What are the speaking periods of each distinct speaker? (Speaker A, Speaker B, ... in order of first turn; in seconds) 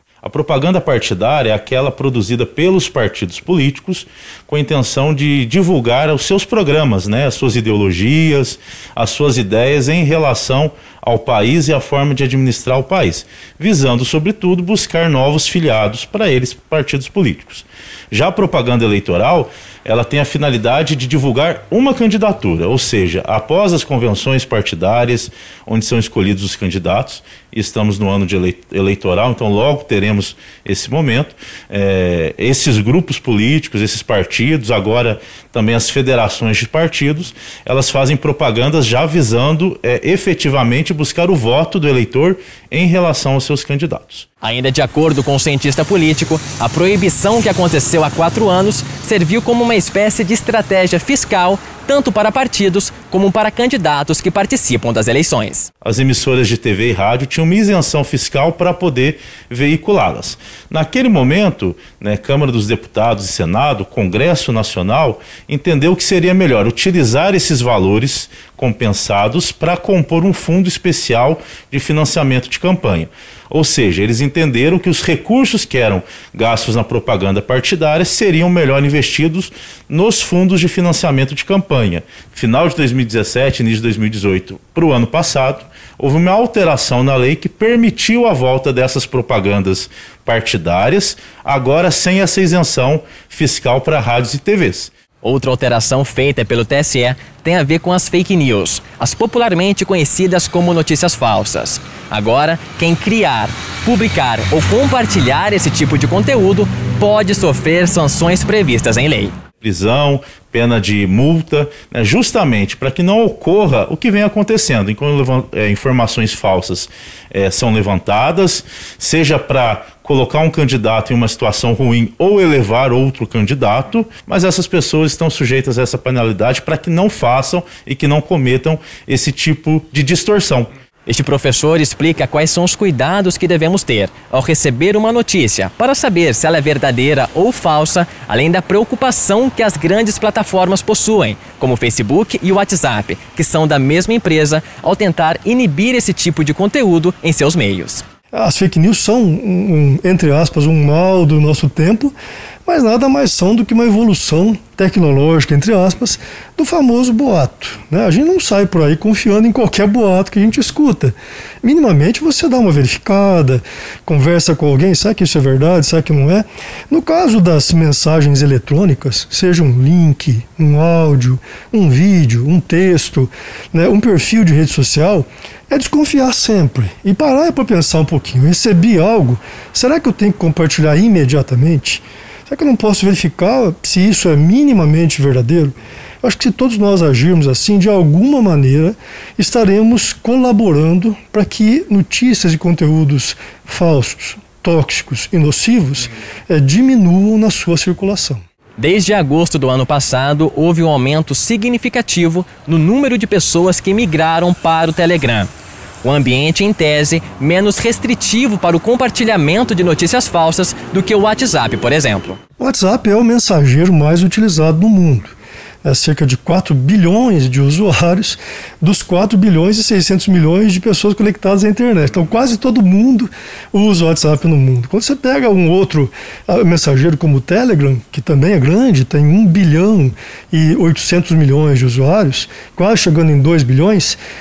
Speaker A: 0.2-44.3, 55.8-94.9, 109.6-130.7
Speaker B: 44.4-55.7, 95.2-109.3, 131.1-148.0, 198.8-205.5, 206.0-212.4
Speaker C: 148.3-152.1, 152.7-198.4, 212.6-234.2